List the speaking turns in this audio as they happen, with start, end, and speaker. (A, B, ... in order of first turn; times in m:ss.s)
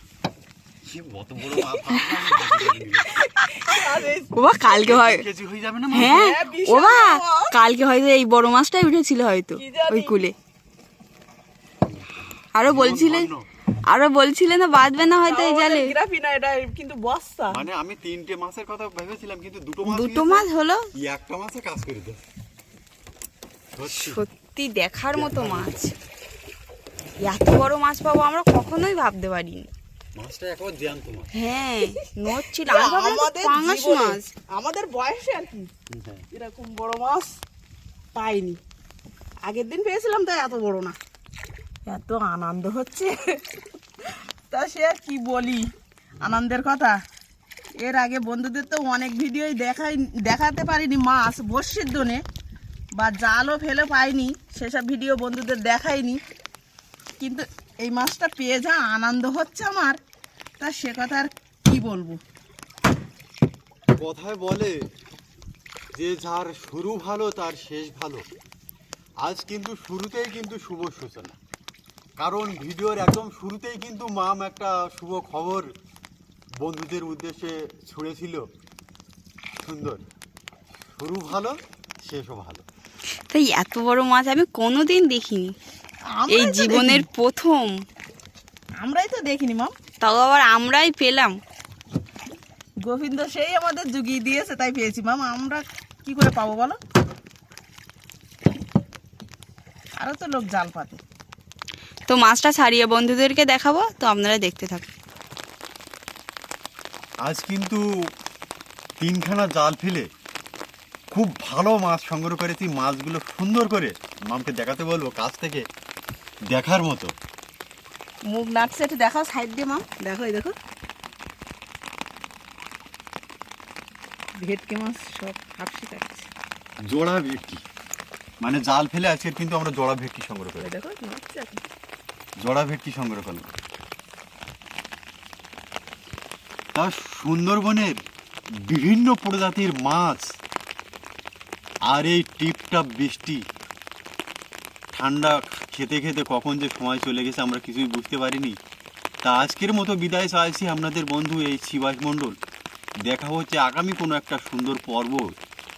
0:00.8-0:03.2 A
0:03.4-0:05.2 B
0:03.4-0:04.3 C
0:04.6-0:06.3 A
0:05.9-0:10.3 B
0:06.0-0:07.5 C
0:09.6-0:10.2 C
0:11.8-0:13.4 A
0:12.5-0:13.3 B
0:13.9-0:15.9 B
0:15.1-0:17.6 C
0:17.5-0:22.2 A
0:19.8-0:20.9 B
0:23.7-0:24.2 A
0:23.9-0:25.9 B
0:25.1-0:25.7 A
0:27.2-0:29.7 B
0:30.2-0:31.3 A
0:31.3-0:34.3 B
0:31.8-0:35.7 C
0:35.9-0:36.2 A
0:36.3-0:37.4 C
0:38.1-0:38.6 C
0:39.4-0:41.0 C
0:41.8-0:45.7 C
0:46.2-0:47.0 C
0:47.8-0:52.2 C
0:52.9-0:56.2 C
0:57.2-1:00.0 C
1:00.6-1:02.2 C
1:04.0-1:04.8 A
1:05.9-1:08.2 A
1:09.2-1:11.4 A
1:12.2-1:15.7 A
1:16.6-1:18.4 A
1:19.6-1:20.1 A
1:20.8-1:22.6 A
1:23.3-1:25.5 B
1:26.1-1:27.1 C
1:26.3-1:27.7 B
1:28.8-1:29.7 C
1:30.0-1:31.4 B
1:32.8-1:36.8 C
1:40.0-1:41.0 C
1:42.1-1:44.9 B
1:47.2-1:47.8 A
1:49.0-1:50.1 A
1:51.1-1:55.6 A
1:56.5-1:57.1 A
1:58.2-2:00.6 C
2:04.4-2:06.3 C
2:06.8-2:07.6 A
2:08.4-2:10.7 A
2:10.6-2:11.6 C
2:12.4-2:13.5 A
2:16.7-2:18.0 A
2:18.5-2:20.4 A
2:21.8-2:23.4 A
2:24.9-2:28.6 A
2:29.2-2:32.4 A
2:33.0-2:35.3 A